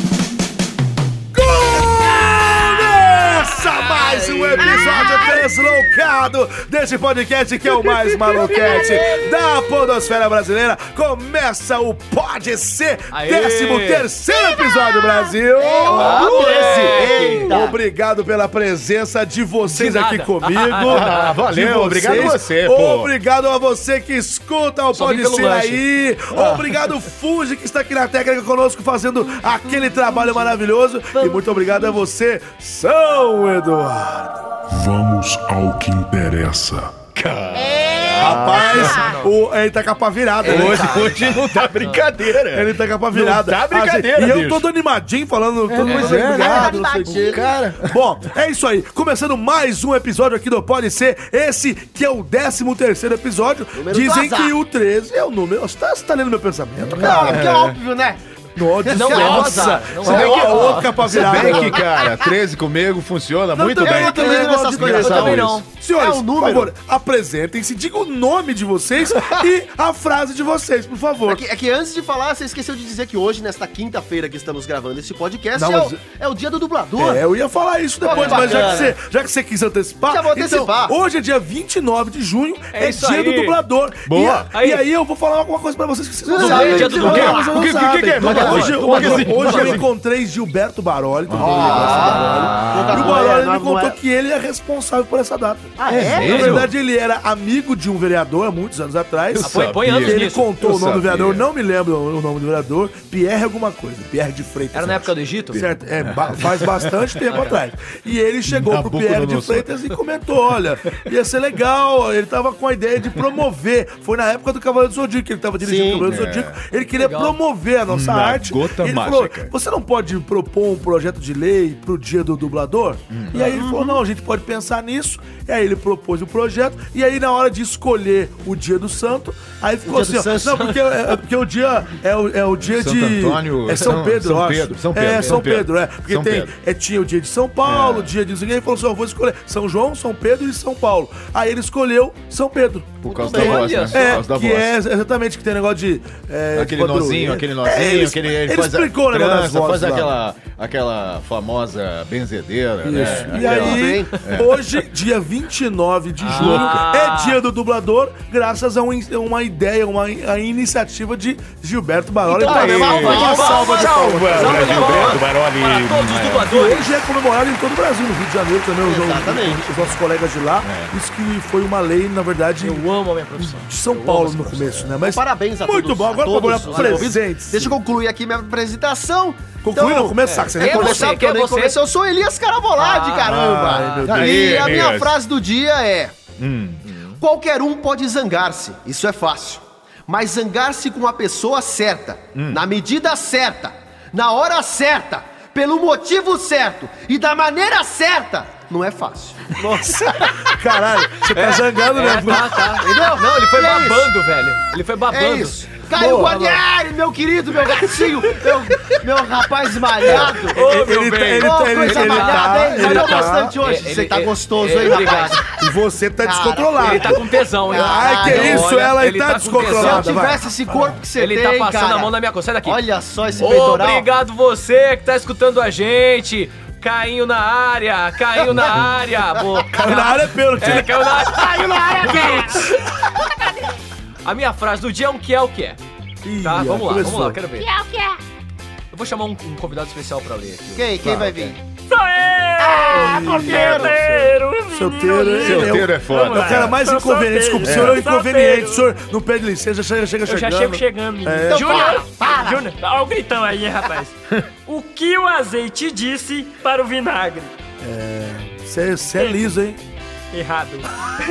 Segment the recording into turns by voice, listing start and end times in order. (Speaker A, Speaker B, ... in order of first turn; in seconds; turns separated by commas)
Speaker A: 1.4-16.7, Speaker B: 3.9-5.1, Speaker C: 8.5-9.2, Speaker D: 8.6-8.8, Speaker C: 13.1-14.1, Speaker D: 14.3-15.3, Speaker B: 15.6-17.8, Speaker C: 15.9-17.5, Speaker A: 17.5-34.5, Speaker C: 19.7-21.4, Speaker E: 20.9-23.1, Speaker C: 24.9-25.8, Speaker E: 26.3-26.8, Speaker F: 34.7-37.0, Speaker E: 37.1-39.0, Speaker D: 37.5-39.2, Speaker A: 38.2-41.3, Speaker C: 38.8-39.3, Speaker C: 40.4-42.0, Speaker E: 40.4-44.7, Speaker A: 42.4-57.5, Speaker E: 45.7-48.0, Speaker B: 45.8-47.6, Speaker B: 53.8-54.5, Speaker E: 56.9-57.8, Speaker B: 56.9-59.9, Speaker A: 58.6-61.9, Speaker C: 58.9-61.2, Speaker E: 59.2-65.6, Speaker B: 61.1-62.0, Speaker A: 63.5-71.5, Speaker B: 63.8-66.7, Speaker C: 65.0-65.7, Speaker B: 71.2-77.2, Speaker A: 75.5-76.0, Speaker A: 77.0-150.2, Speaker B: 78.0-78.9, Speaker C: 78.1-78.9, Speaker B: 80.1-81.0, Speaker C: 82.7-83.6, Speaker E: 84.1-84.5, Speaker C: 84.5-84.8, Speaker B: 86.2-87.7, Speaker C: 86.4-87.6, Speaker E: 86.7-89.9, Speaker C: 88.2-89.8, Speaker B: 88.2-88.6, Speaker E: 91.3-93.3, Speaker B: 91.4-94.0, Speaker C: 91.9-92.5, Speaker B: 95.8-96.6, Speaker E: 95.9-96.7, Speaker C: 96.2-96.6, Speaker E: 99.3-101.5, Speaker C: 99.5-100.5, Speaker C: 104.7-105.7, Speaker E: 106.0-107.0, Speaker C: 107.3-107.5, Speaker E: 108.5-110.0, Speaker B: 115.6-116.1, Speaker E: 116.0-116.6, Speaker C: 116.9-117.4, Speaker E: 117.9-119.5, Speaker E: 123.1-123.6, Speaker B: 123.5-124.0, Speaker B: 129.9-130.7, Speaker E: 132.6-136.5, Speaker C: 135.1-135.4, Speaker E: 137.7-138.1, Speaker E: 143.0-144.8, Speaker C: 143.1-144.2, Speaker B: 143.2-143.7, Speaker E: 146.6-154.6, Speaker A: 152.8-165.2, Speaker B: 153.4-154.2, Speaker E: 156.2-156.9, Speaker C: 156.3-157.4, Speaker B: 162.3-164.0, Speaker E: 162.3-166.5, Speaker C: 162.5-167.0, Speaker A: 166.4-172.8, Speaker B: 168.8-170.0, Speaker E: 170.6-170.9, Speaker C: 172.6-174.8, Speaker A: 173.4-177.8, Speaker B: 175.0-186.2, Speaker C: 176.6-177.1, Speaker A: 179.6-181.2, Speaker C: 180.3-181.8, Speaker C: 182.8-184.1, Speaker A: 183.2-184.7, Speaker E: 184.1-185.2, Speaker E: 186.4-186.8, Speaker C: 186.8-187.2, Speaker B: 187.2-200.5, Speaker E: 192.3-192.6, Speaker A: 199.8-202.8, Speaker C: 201.3-205.6, Speaker B: 202.8-204.1, Speaker B: 205.1-210.6, Speaker E: 205.9-206.6, Speaker A: 210.0-213.6, Speaker C: 210.1-215.4, Speaker B: 211.4-215.5, Speaker A: 215.6-220.4, Speaker B: 216.2-218.7, Speaker C: 216.8-220.2, Speaker B: 219.7-224.1, Speaker C: 221.2-222.8, Speaker E: 223.3-223.7, Speaker C: 223.4-232.7, Speaker A: 229.7-231.1, Speaker B: 231.4-232.3, Speaker D: 231.8-232.6, Speaker A: 232.3-232.6, Speaker C: 234.2-235.8, Speaker A: 236.2-237.4, Speaker C: 236.4-237.7, Speaker D: 237.6-238.2, Speaker C: 238.9-241.0, Speaker B: 240.7-241.6, Speaker A: 241.0-241.5, Speaker G: 241.9-248.9, Speaker B: 242.6-244.0, Speaker A: 242.9-251.9, Speaker E: 245.4-246.8, Speaker E: 247.6-248.0, Speaker G: 250.2-257.5, Speaker B: 251.5-252.6, Speaker A: 257.8-259.8, Speaker G: 259.2-259.4, Speaker G: 260.3-260.9